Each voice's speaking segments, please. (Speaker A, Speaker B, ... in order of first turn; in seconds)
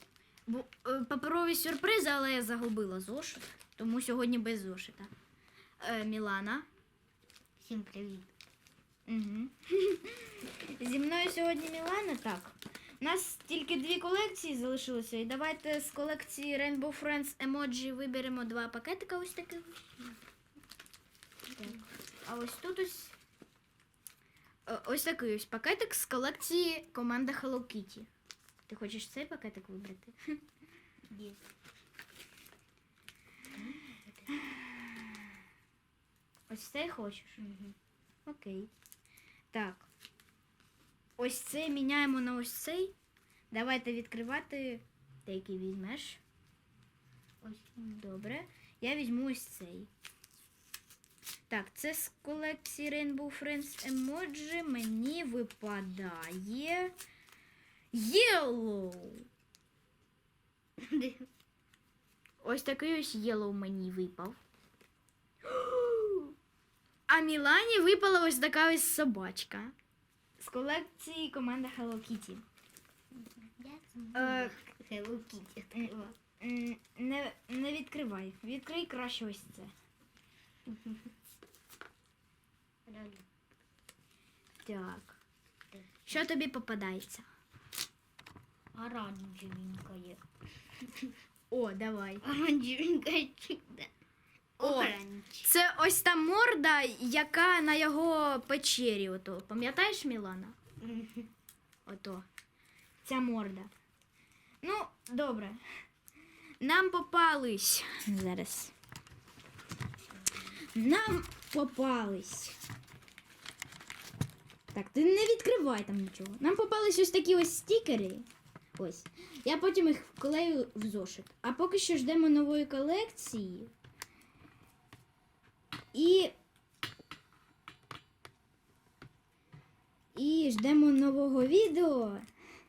Speaker A: 0.5-5.1, 5.8-6.7, 9.1-20.2, 21.6-23.1, 24.7-28.1, 28.7-30.4, 34.5-35.0, 36.5-37.4, 38.3-38.7, 39.5-39.9, 41.2-43.0, 43.5-46.2, 47.8-49.9, 51.5-56.9, 57.9-59.2, 62.4-64.4, 65.5-66.3, 67.1-69.7, 70.4-72.4, 74.1-74.6, 75.7-79.7, 84.6-85.2, 86.1-87.3, 91.5-92.2, 94.6-100.6, 101.9-102.3, 103.0-103.7, 104.6-105.6, 106.6-108.7, 110.8-112.6, 114.7-118.2, 118.8-123.7, 125.9-126.3, 130.2-132.2
Speaker B: 7.6-8.3, 31.1-31.4, 33.5-34.3, 37.4-37.8, 60.8-61.3, 73.1-76.2, 80.7-81.0, 82.9-83.3, 85.7-86.2, 88.7-90.2, 92.2-93.9, 94.6-95.5, 100.8-101.3